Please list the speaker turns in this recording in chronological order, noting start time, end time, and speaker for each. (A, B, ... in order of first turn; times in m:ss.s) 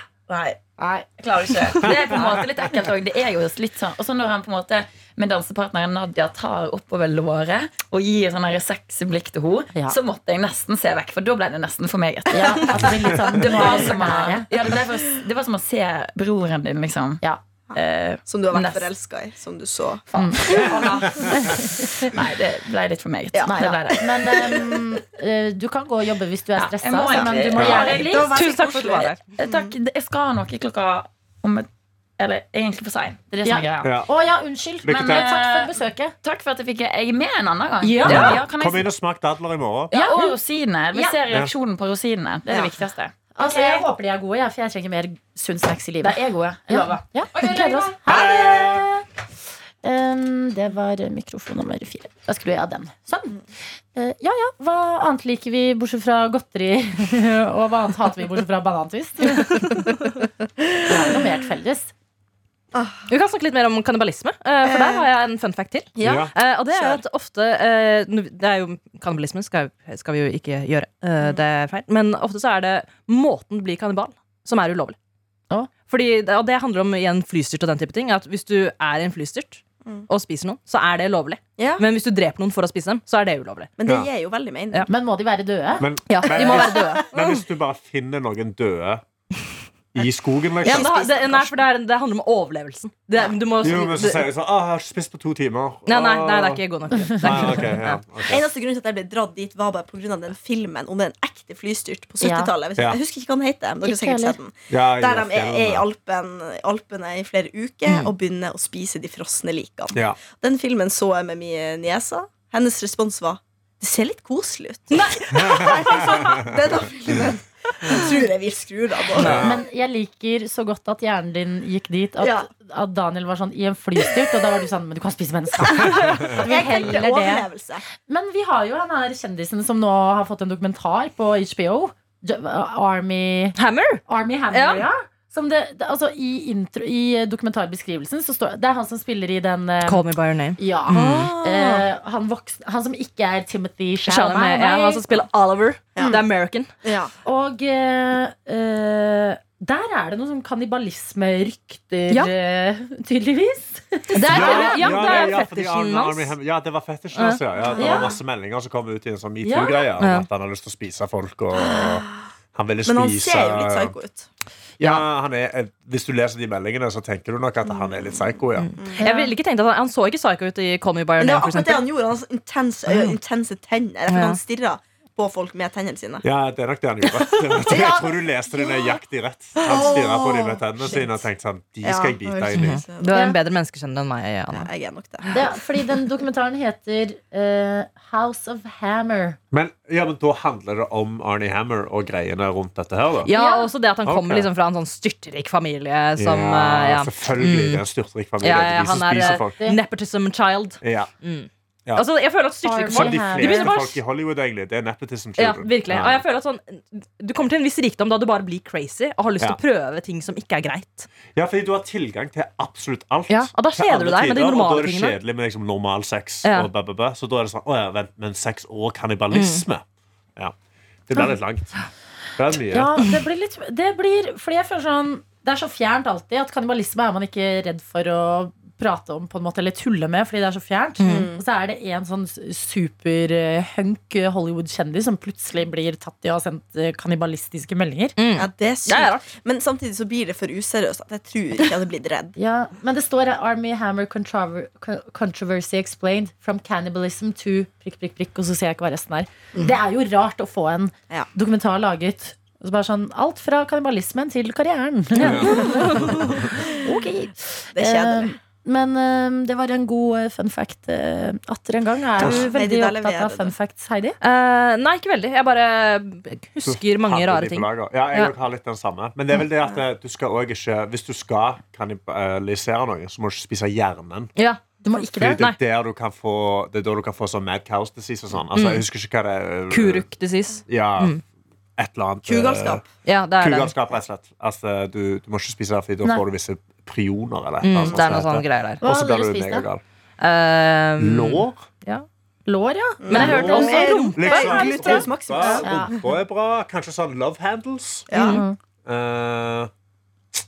0:00.3-0:00.6 A
0:01.0-0:18.9 B
0:12.3-0:14.5 C
0:17.7-0:20.8 A
0:20.1-0:24.2 B
0:20.1-0:20.7 C
0:21.3-0:21.6 C
0:23.3-0:24.8 A
0:23.4-0:28.5 C
0:26.6-0:28.4 B
0:27.1-0:29.7 A
0:27.6-0:28.0 D
0:28.2-0:29.2 E
0:29.0-0:34.0 B
0:33.4-0:36.1 C
0:33.8-0:34.1 D
0:34.8-0:35.3 D
0:34.9-0:38.9 B
0:37.8-0:38.3 C
0:38.0-0:39.9 D
0:38.0-0:38.4 E
0:39.9-0:43.8 B
0:39.9-0:40.3 C
0:43.4-0:49.0 C
0:46.0-0:48.1 B
0:48.1-0:48.8 D
0:49.8-0:53.4 C
0:53.9-0:59.7 C
1:00.8-1:01.9 C
1:00.9-1:01.2 A
1:02.7-1:03.0 A
1:03.1-1:15.0 E
1:04.6-1:05.0 A
1:06.0-1:06.3 D
1:06.0-1:07.0 A
1:15.9-1:23.7 E
1:21.6-1:21.8 A
1:23.8-1:24.9 A
1:24.9-1:25.8 C
1:25.8-1:29.0 D
1:26.1-1:27.1 E
1:26.3-1:27.4 A
1:29.9-1:30.9 D
1:30.6-1:31.6 A
1:30.6-1:34.3 E
1:33.6-1:38.5 D
1:35.8-1:38.0 E
1:38.2-1:59.5 A
1:42.2-1:42.5 C
1:42.8-1:43.0 D
1:43.8-1:44.4 C
1:44.7-1:45.8 D
1:49.9-1:50.2 D
1:55.3-1:55.7 D
1:59.2-1:59.6 D
1:59.3-2:07.5 C
2:02.2-2:02.5 A
2:06.2-2:07.8 A
2:08.0-2:20.0 C
2:13.6-2:14.9 E
2:19.8-2:21.3 E
2:20.6-2:25.1 C
2:20.9-2:21.8 A
2:24.0-2:26.7 E
2:25.9-2:26.2 A
2:26.8-2:27.1 A
2:27.2-2:35.4 C
2:34.1-2:36.3 E
2:34.2-2:44.0 D
2:37.1-2:37.4 E
2:37.6-2:38.1 A
2:37.8-2:38.2 C
2:39.4-2:39.8 C
2:40.0-2:40.3 E
2:41.5-2:42.2 A
2:42.8-2:44.3 A
2:44.8-2:48.7 D
2:47.6-2:49.0 A
2:48.6-2:51.9 E
2:49.0-2:49.3 C
2:51.2-2:56.2 A
2:52.9-2:53.2 E
2:54.1-2:54.4 E
2:56.2-3:02.8 D
2:57.5-2:59.0 A
2:59.6-3:01.3 A
3:01.8-3:03.1 A
3:02.5-3:04.7 E
3:03.1-3:03.4 C
3:04.5-3:05.9 A
3:05.3-3:09.4 C
3:09.5-3:13.3 D
3:13.2-3:17.8 E
3:13.3-3:13.7 C
3:14.0-3:14.5 D
3:16.2-3:19.6 D
3:18.4-3:24.0 E
3:20.8-3:21.1 D
3:22.6-3:23.7 C
3:22.8-3:26.2 D
3:25.4-3:31.1 E
3:31.3-3:39.8 D
3:33.3-3:35.2 E
3:36.4-3:36.7 E
3:39.3-3:39.6 E
3:41.1-3:41.7 D
3:42.4-3:43.0 D
3:42.7-3:58.1 C
3:51.0-3:51.3 E
3:51.0-3:51.4 A
3:58.2-3:59.2 E
3:58.3-4:02.4 A
4:02.4-4:24.2 C
4:15.2-4:16.0 E
4:15.2-4:16.1 D
4:15.4-4:16.6 A
4:17.7-4:18.4 A
4:22.2-4:22.5 D
4:22.2-4:23.5 A
4:24.2-4:28.3 E
4:26.6-4:34.3 D
4:34.4-4:34.6 E
4:34.8-4:35.2 C
4:35.1-4:40.1 D
4:35.2-4:35.6 E
4:38.5-4:38.8 E
4:39.7-4:41.2 E
4:40.7-4:41.2 D
4:41.8-4:42.8 D
4:42.2-4:42.8 A
4:43.0-4:43.7 E
4:43.4-4:49.8 D
4:47.6-4:48.8 E
4:48.8-4:49.7 C
4:50.2-4:52.0 E
4:51.0-4:51.6 D
4:52.0-4:55.9 C
4:53.0-4:56.1 A
4:53.1-4:55.0 E
4:53.2-4:58.1 D
4:58.1-4:58.4 A
4:58.1-4:58.4 E
4:58.2-4:58.6 C
4:58.8-4:59.7 D